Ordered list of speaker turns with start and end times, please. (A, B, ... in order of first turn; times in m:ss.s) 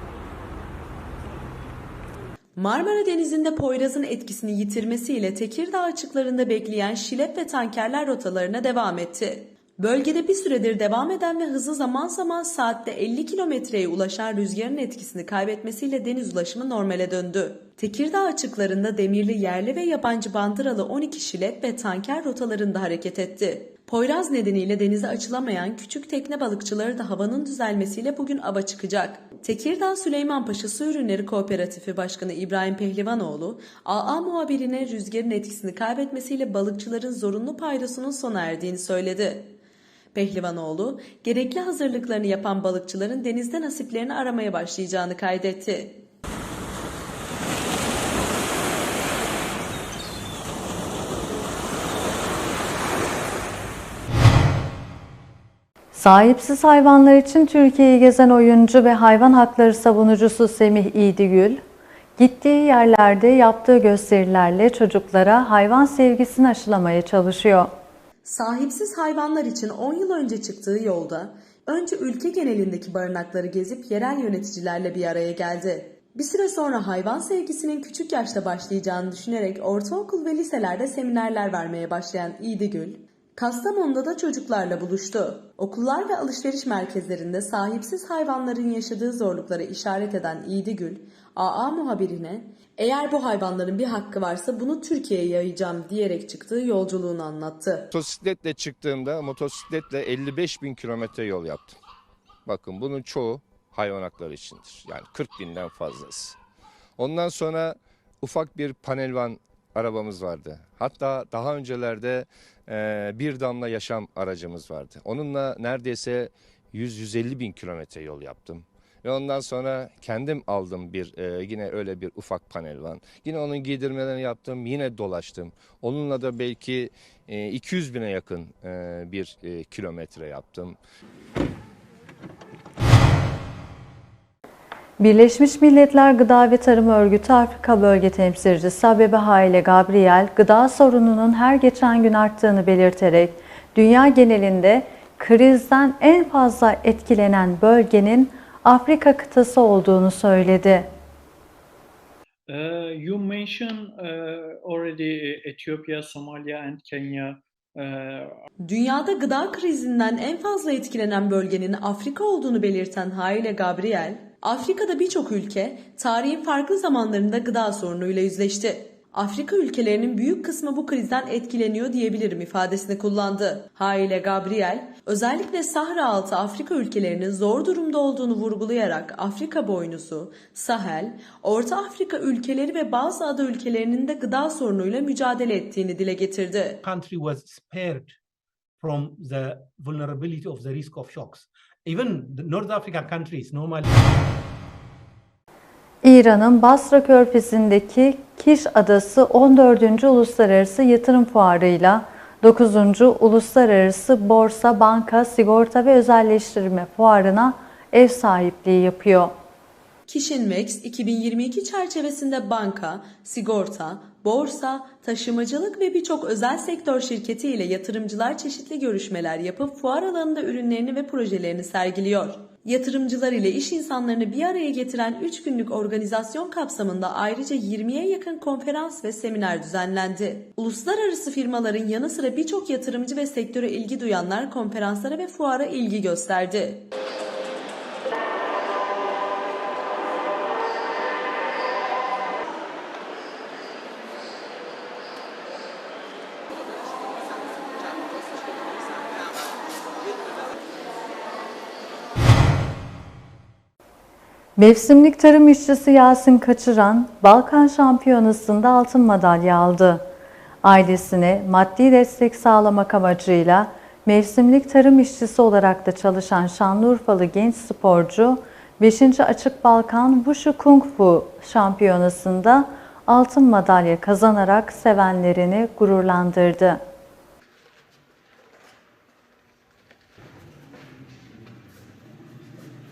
0:02.6-0:39.6 A
0:40.1-0:46.0 A
0:55.9-1:01.6 B
1:02.2-1:07.7 B
1:08.2-1:37.9 A
1:37.9-1:41.8 C
1:42.4-1:46.4 C
1:47.0-2:10.8 C
2:15.0-2:30.9 B
2:32.5-2:38.3 D
2:38.6-3:06.8 A
3:06.8-3:08.2 E
3:08.8-3:13.9 E
3:16.0-3:29.3 B
3:30.1-3:56.9 A
4:14.6-4:20.0 B
4:20.6-4:36.8 B